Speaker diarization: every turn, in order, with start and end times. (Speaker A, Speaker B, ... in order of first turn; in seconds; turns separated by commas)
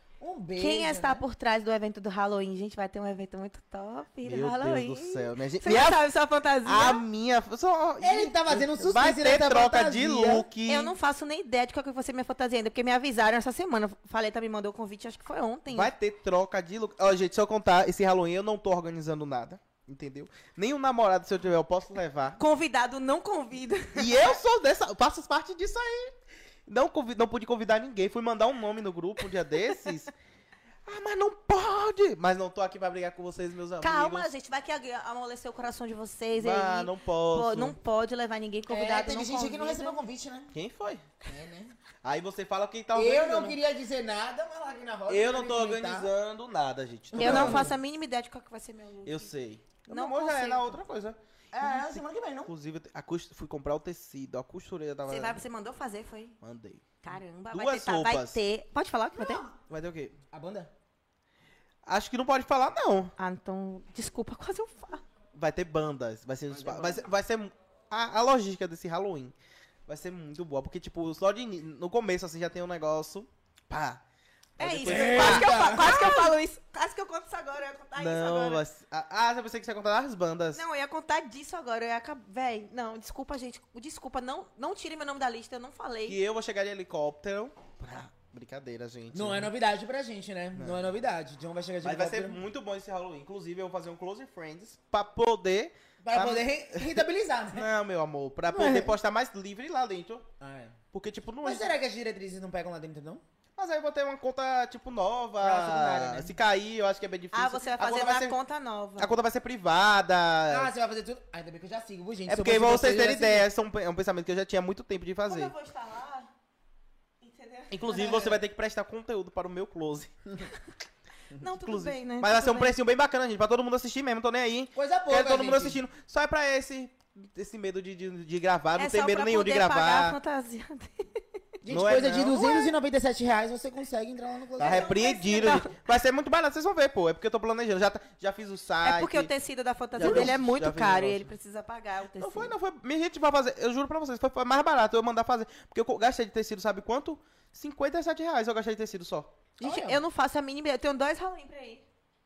Speaker A: 0.2-1.2, Speaker B: 0.6-7.0, Speaker C: 4.2-6.0, Speaker C: 6.7-10.9, Speaker A: 8.0-10.5, Speaker B: 10.7-15.9, Speaker C: 15.7-22.4, Speaker B: 22.4-24.4, Speaker C: 23.9-26.1, Speaker C: 26.7-30.1, Speaker C: 30.9-34.3, Speaker B: 33.8-40.0, Speaker C: 36.4-37.8, Speaker A: 38.7-40.5, Speaker C: 40.5-41.0, Speaker A: 41.2-41.8, Speaker C: 42.0-43.6, Speaker A: 42.9-46.1, Speaker C: 45.1-47.7, Speaker A: 47.1-47.7, Speaker B: 47.1-49.3, Speaker C: 49.0-55.4, Speaker B: 49.9-50.8, Speaker A: 51.5-52.5, Speaker B: 55.1-56.4, Speaker C: 56.4-56.8, Speaker B: 57.0-59.5, Speaker C: 57.5-58.4, Speaker C: 59.5-60.1, Speaker A: 60.3-60.7, Speaker C: 61.9-63.1, Speaker B: 63.2-65.0, Speaker C: 65.3-69.3, Speaker A: 66.5-67.0, Speaker C: 69.9-74.0, Speaker C: 74.6-76.1, Speaker B: 74.6-78.6, Speaker A: 74.8-76.3, Speaker C: 78.0-80.6, Speaker B: 80.5-86.2, Speaker C: 86.1-89.5, Speaker A: 89.1-92.4, Speaker C: 90.5-90.9, Speaker C: 91.8-100.3, Speaker A: 96.0-97.7, Speaker A: 98.5-98.9, Speaker A: 100.4-100.8, Speaker C: 100.9-101.7, Speaker A: 101.4-103.2, Speaker C: 103.6-108.4, Speaker A: 105.4-106.4, Speaker B: 107.3-109.1, Speaker C: 109.0-110.7, Speaker A: 110.5-113.5, Speaker C: 112.3-115.5, Speaker B: 115.3-116.3, Speaker B: 117.2-118.3, Speaker C: 117.7-120.2, Speaker A: 118.0-118.3, Speaker B: 121.3-122.8, Speaker C: 121.6-130.2, Speaker A: 124.8-125.8, Speaker B: 128.8-131.2, Speaker A: 131.6-135.6, Speaker C: 131.7-132.7, Speaker C: 134.6-139.3, Speaker B: 134.6-135.8, Speaker B: 138.8-142.5, Speaker C: 140.0-141.3, Speaker A: 140.0-140.3, Speaker C: 142.2-149.4, Speaker A: 149.6-150.0, Speaker B: 149.6-151.8